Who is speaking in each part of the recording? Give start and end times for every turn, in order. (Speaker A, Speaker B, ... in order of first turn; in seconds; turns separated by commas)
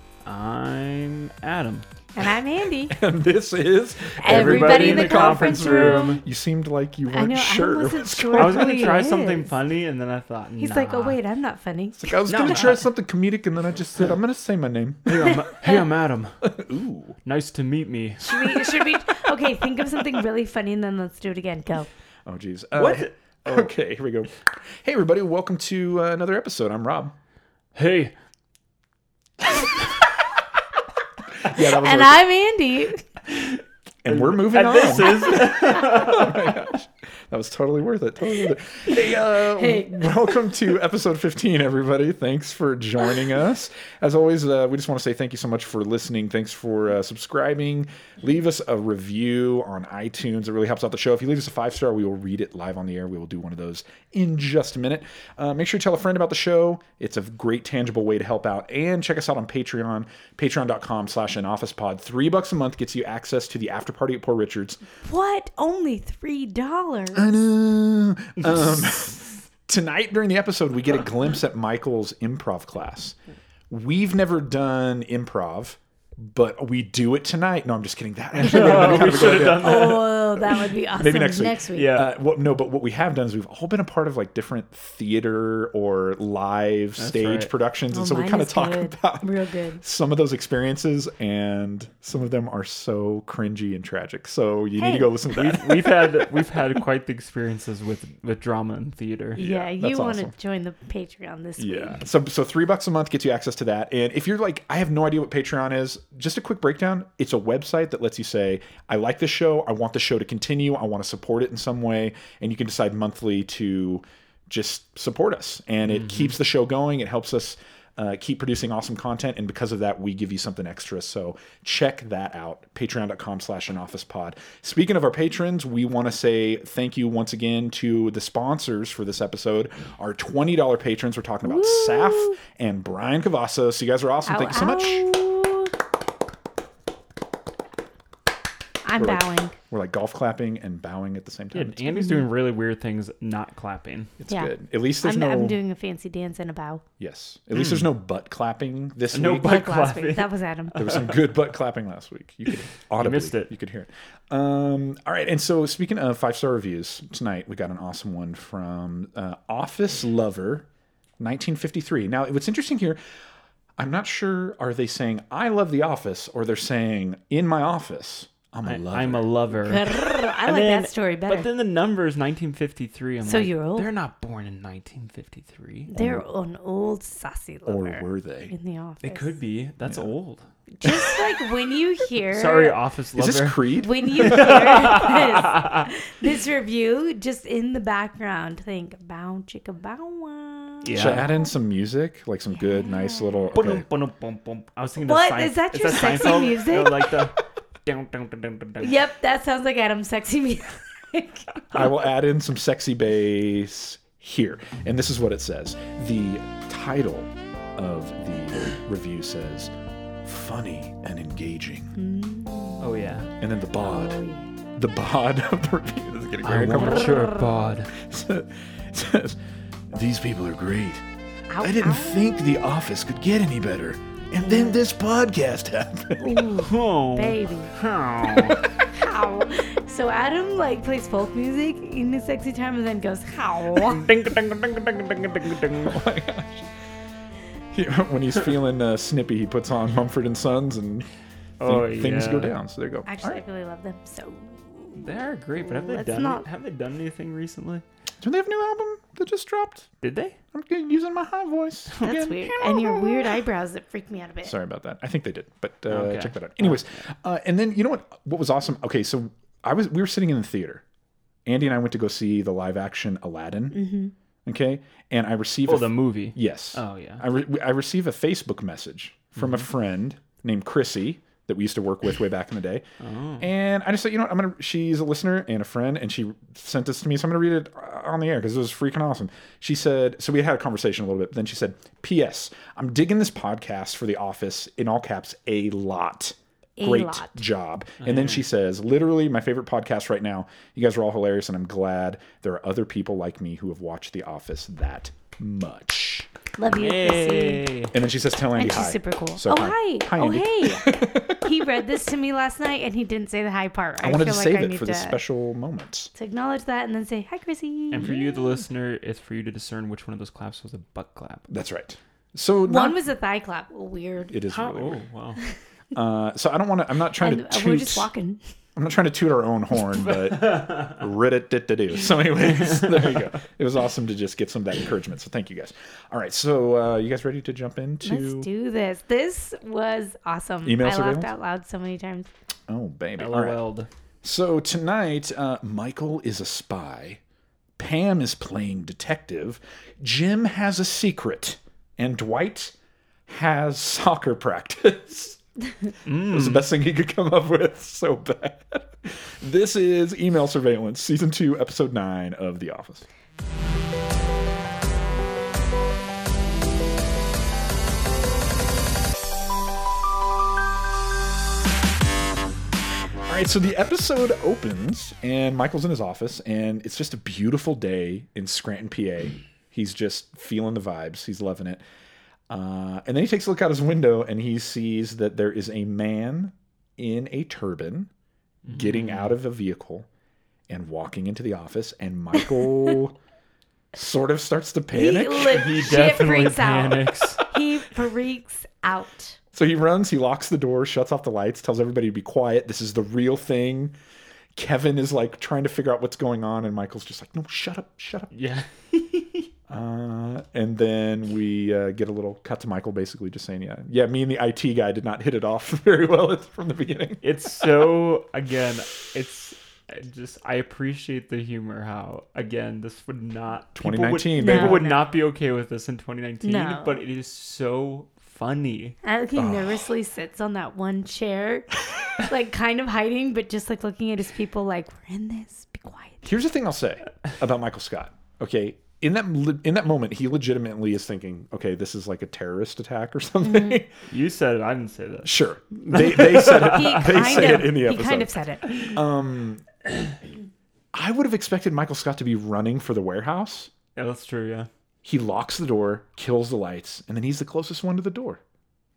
Speaker A: 0.2-1.9, Speaker B: 2.1-3.0, Speaker C: 2.9-8.9, Speaker B: 4.2-6.2, Speaker A: 4.2-6.2, Speaker B: 7.1-9.5, Speaker A: 8.4-11.2, Speaker B: 10.6-12.7, Speaker C: 12.0-15.4, Speaker A: 12.3-12.9, Speaker A: 15.1-16.4, Speaker B: 15.5-15.8, Speaker C: 16.4-17.2, Speaker A: 17.2-18.2, Speaker C: 18.2-19.1, Speaker B: 18.2-21.9, Speaker C: 22.3-27.1, Speaker A: 22.8-23.7, Speaker A: 27.8-28.1, Speaker C: 31.4-32.2, Speaker B: 31.7-33.0, Speaker A: 33.4-36.6, Speaker C: 34.0-64.8, Speaker B: 39.6-40.1, Speaker B: 65.0-67.4, Speaker C: 67.2-73.2, Speaker C: 73.7-80.1, Speaker A: 78.4-80.2, Speaker B: 78.4-82.0, Speaker C: 80.9-96.3, Speaker A: 81.8-82.1, Speaker A: 87.0-87.5, Speaker B: 87.9-89.8, Speaker B: 94.8-95.1, Speaker A: 95.3-99.4, Speaker C: 99.4-100.3, Speaker B: 99.4-102.0, Speaker C: 101.6-135.1, Speaker B: 131.4-132.4, Speaker B: 134.3-135.7, Speaker B: 138.8-139.6, Speaker C: 139.0-141.9, Speaker A: 141.5-144.1, Speaker B: 141.9-142.3, Speaker C: 144.2-145.6, Speaker B: 144.3-146.8, Speaker C: 147.0-149.7, Speaker A: 147.6-147.9, Speaker A: 149.1-151.2, Speaker B: 149.4-150.8, Speaker C: 150.8-160.7, Speaker A: 153.0-153.5, Speaker C: 161.2-163.0, Speaker C: 163.8-169.3, Speaker A: 168.7-175.9, Speaker B: 169.6-171.5, Speaker B: 173.3-173.9, Speaker B: 175.9-179.4, Speaker C: 175.9-176.2, Speaker C: 177.7-178.5, Speaker A: 179.0-180.5, Speaker B: 180.8-182.8, Speaker C: 180.8-181.2, Speaker A: 182.3-185.9, Speaker C: 183.2-184.8, Speaker B: 183.8-191.3, Speaker A: 190.8-191.3, Speaker C: 190.9-193.9, Speaker B: 192.5-193.6, Speaker A: 193.5-198.9, Speaker B: 195.0-197.2, Speaker B: 198.8-201.8, Speaker C: 201.7-209.7, Speaker C: 210.2-211.9, Speaker B: 212.0-213.1, Speaker A: 212.8-213.3, Speaker C: 213.4-214.2, Speaker B: 213.8-214.5, Speaker C: 214.8-219.4, Speaker A: 216.4-217.9, Speaker C: 219.9-221.0, Speaker B: 221.5-222.7, Speaker C: 221.6-226.4, Speaker B: 224.3-224.8, Speaker B: 226.2-227.7, Speaker A: 226.6-228.6, Speaker C: 228.4-228.7, Speaker B: 228.9-234.0, Speaker A: 233.8-236.0, Speaker C: 235.7-236.7, Speaker C: 237.7-241.1, Speaker A: 241.6-242.5, Speaker C: 241.6-243.4, Speaker B: 243.1-245.1, Speaker A: 245.0-247.8, Speaker B: 245.6-246.5, Speaker C: 248.2-249.9, Speaker A: 250.0-250.4, Speaker C: 250.5-252.7, Speaker A: 252.0-253.0, Speaker B: 252.0-254.5, Speaker C: 254.4-260.8, Speaker A: 255.9-256.9, Speaker C: 261.5-263.9, Speaker B: 263.7-264.1, Speaker C: 264.5-272.9, Speaker A: 265.7-267.2, Speaker A: 269.4-269.6, Speaker A: 273.0-273.5, Speaker C: 273.4-296.3, Speaker B: 286.8-287.4, Speaker A: 288.0-288.4, Speaker B: 296.6-297.7, Speaker A: 296.7-297.9, Speaker C: 297.9-301.9, Speaker B: 298.5-305.2, Speaker C: 304.0-306.1, Speaker B: 306.1-308.6, Speaker A: 307.9-311.5, Speaker C: 311.5-313.0, Speaker B: 312.7-314.4, Speaker C: 314.3-315.0, Speaker A: 314.5-315.4, Speaker C: 315.9-318.1, Speaker B: 317.2-318.4, Speaker C: 318.8-328.5, Speaker A: 320.3-320.9, Speaker B: 328.0-332.3, Speaker C: 330.6-331.3, Speaker C: 332.7-333.6, Speaker A: 333.2-333.9, Speaker C: 334.2-337.2, Speaker C: 337.8-342.8, Speaker C: 343.3-345.4, Speaker A: 346.1-346.7, Speaker C: 346.1-353.1, Speaker C: 363.3-371.8, Speaker C: 372.5-378.1, Speaker A: 378.7-379.4, Speaker C: 378.7-380.1, Speaker C: 380.7-383.2, Speaker C: 383.9-385.8, Speaker B: 384.9-389.4, Speaker A: 385.5-387.4, Speaker C: 389.5-393.9, Speaker C: 394.6-398.3, Speaker A: 398.3-399.5, Speaker C: 399.7-407.7, Speaker A: 407.2-419.0, Speaker C: 413.8-414.8, Speaker B: 414.4-415.1, Speaker B: 416.4-417.0, Speaker B: 419.0-426.3, Speaker C: 419.4-419.8, Speaker C: 426.2-433.9, Speaker B: 433.4-433.8, Speaker A: 434.1-435.4, Speaker C: 435.2-439.6, Speaker A: 435.9-437.7, Speaker B: 436.5-438.9, Speaker C: 440.9-443.7, Speaker A: 443.9-444.7, Speaker C: 445.0-448.4